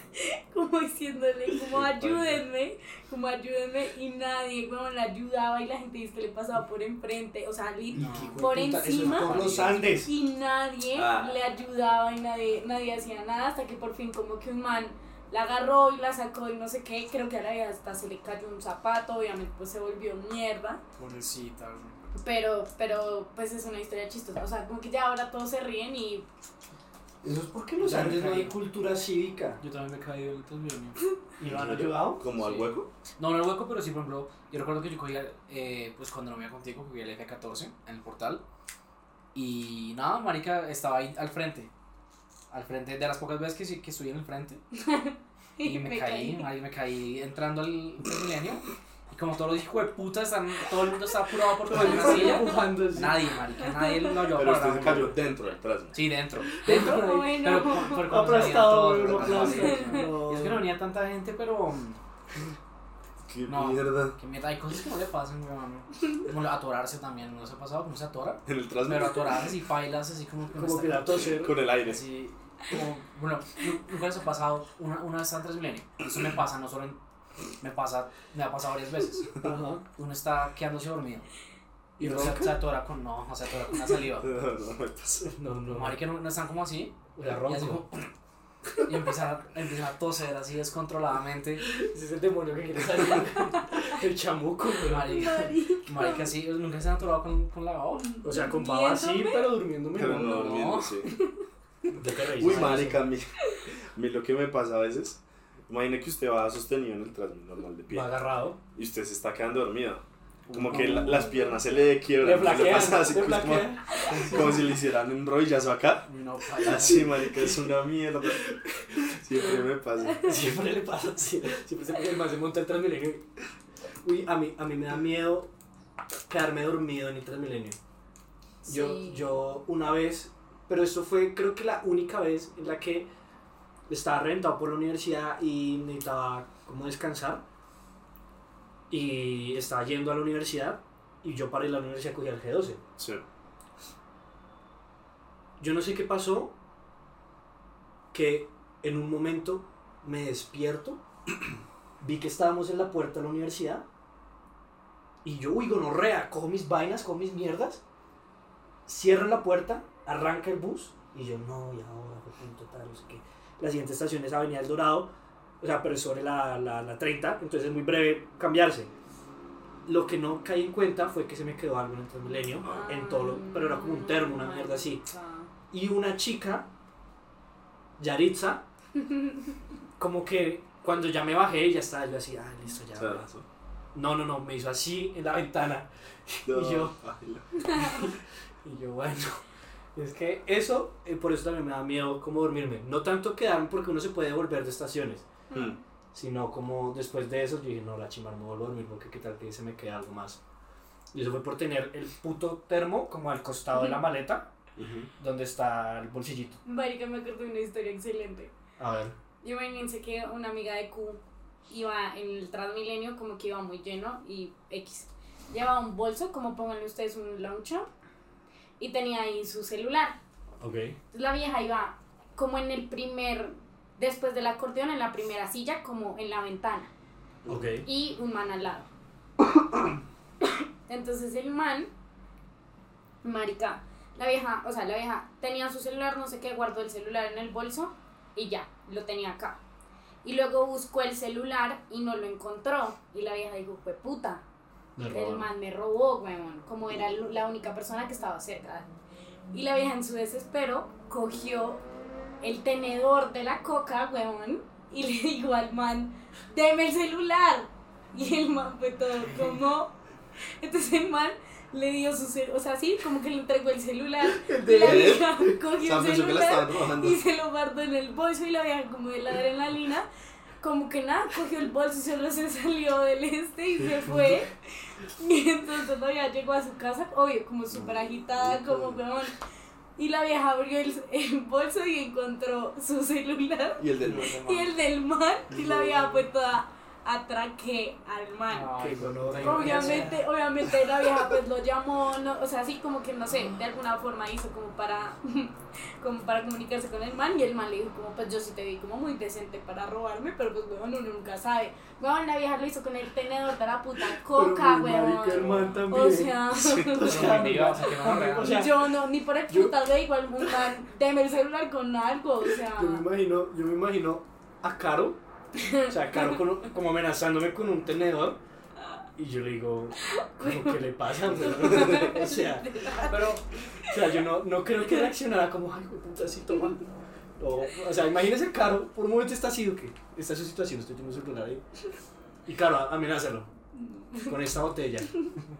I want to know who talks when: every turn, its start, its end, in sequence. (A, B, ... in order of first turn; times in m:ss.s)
0:00.1-0:20.8 A
0:01.7-0:02.4 B
0:07.9-0:10.1 C
0:07.9-0:09.9 D
0:10.9-0:11.4 B
0:21.0-0:22.0 D
0:22.1-0:26.2 A
0:27.2-0:29.6 C
0:27.8-0:28.6 D
0:29.6-0:31.0 D
0:31.4-0:32.2 C
0:31.5-0:32.9 B
0:32.3-0:38.4 D
0:39.3-0:41.7 D
0:42.5-0:44.6 D
0:44.7-0:46.5 A
0:45.6-0:55.2 D
0:51.6-0:53.3 C
0:51.8-0:52.6 A
0:54.2-0:56.0 B
0:54.8-0:55.1 C
0:55.9-1:02.0 D
0:56.6-1:00.7 C
0:56.7-0:58.2 A
0:58.8-0:59.8 B
0:59.6-1:00.0 A
1:03.3-1:04.2 B
1:03.5-1:11.2 D
1:08.4-1:09.5 B
1:10.5-1:11.6 C
1:11.2-1:12.0 B
1:11.8-1:17.0 D
1:17.6-1:21.3 D
1:19.4-1:19.8 C
1:22.0-1:22.6 C
1:22.0-1:24.3 D
1:24.2-1:25.3 B
1:25.2-1:26.0 C
1:25.7-1:28.1 D
1:27.1-1:27.8 C
1:28.8-1:31.7 D
1:31.6-1:35.1 C
1:34.8-1:38.1 D
1:35.0-1:36.3 A
1:37.9-1:39.5 A
1:38.2-1:40.6 C
1:39.9-1:41.1 B
1:40.0-1:41.1 D
1:41.9-1:43.0 C
1:42.3-1:43.3 B
1:42.5-1:42.9 D
1:44.0-1:48.1 B
1:47.9-1:48.6 C
1:48.7-1:56.1 B
1:50.5-1:51.2 D
1:50.7-1:51.3 C
1:52.2-1:54.6 C
1:56.0-1:57.2 D
1:56.6-2:00.3 B
1:58.3-1:59.4 C
2:00.2-2:03.2 C
2:04.0-2:05.5 C
2:06.3-2:07.8 C
2:08.6-2:09.3 A
2:08.6-2:13.1 C
2:13.9-2:17.4 C
2:18.9-2:22.8 C
2:23.0-2:23.2 B
2:25.6-2:26.5 C
2:28.1-2:31.0 C
2:32.0-2:33.8 C
2:35.2-2:37.8 C
2:38.8-2:48.9 C
2:49.8-2:55.0 C
2:52.6-2:52.9 B
2:52.6-2:55.5 A
2:55.7-2:56.7 C
2:58.0-2:58.6 C
3:00.0-3:03.3 C
3:03.0-3:03.4 B
3:03.9-3:06.9 C
3:06.4-3:08.1 B
3:07.8-3:09.4 C
3:09.9-3:15.3 C
3:15.5-3:15.8 A
3:16.1-3:20.4 C
3:21.1-3:24.5 C
3:24.8-3:25.1 B
3:25.2-3:26.6 C
3:26.6-3:28.5 A
3:28.8-3:29.2 C
3:29.4-3:37.8 A
3:38.8-3:40.2 A
3:40.6-3:41.0 C
3:41.1-3:46.9 A
3:47.4-3:47.7 B
3:47.5-3:47.8 C
3:47.8-3:48.9 A
3:50.4-3:51.9 A
3:53.2-3:59.6 A
4:00.2-4:04.4 A
4:05.0-4:05.5 C
4:05.1-4:08.9 A
4:09.5-4:11.8 A
4:12.4-4:20.0 A
4:20.6-4:30.0 A
4:24.3-4:25.2 C
4:24.7-4:27.2 B
4:30.6-4:39.4 A
4:37.7-4:39.0 B
4:40.0-4:48.7 A
4:43.8-4:44.3 B
4:44.0-4:44.7 D
4:45.5-4:46.0 C
4:48.5-4:50.2 D
4:48.8-4:50.2 C
4:49.4-5:13.0 A
5:04.2-5:08.9 C
5:05.3-5:05.9 D
5:06.6-5:07.1 B
5:07.0-5:08.6 D
5:09.5-5:09.8 C
5:10.4-5:10.7 C
5:12.5-5:15.2 C
5:15.5-5:16.4 A
5:15.9-5:18.4 C
5:19.2-5:26.8 C
5:20.0-5:23.3 A
5:21.5-5:21.9 B
5:27.4-5:31.6 C
5:32.4-5:33.5 C
5:33.7-5:34.4 A
5:34.2-5:35.1 C
5:35.1-5:35.4 A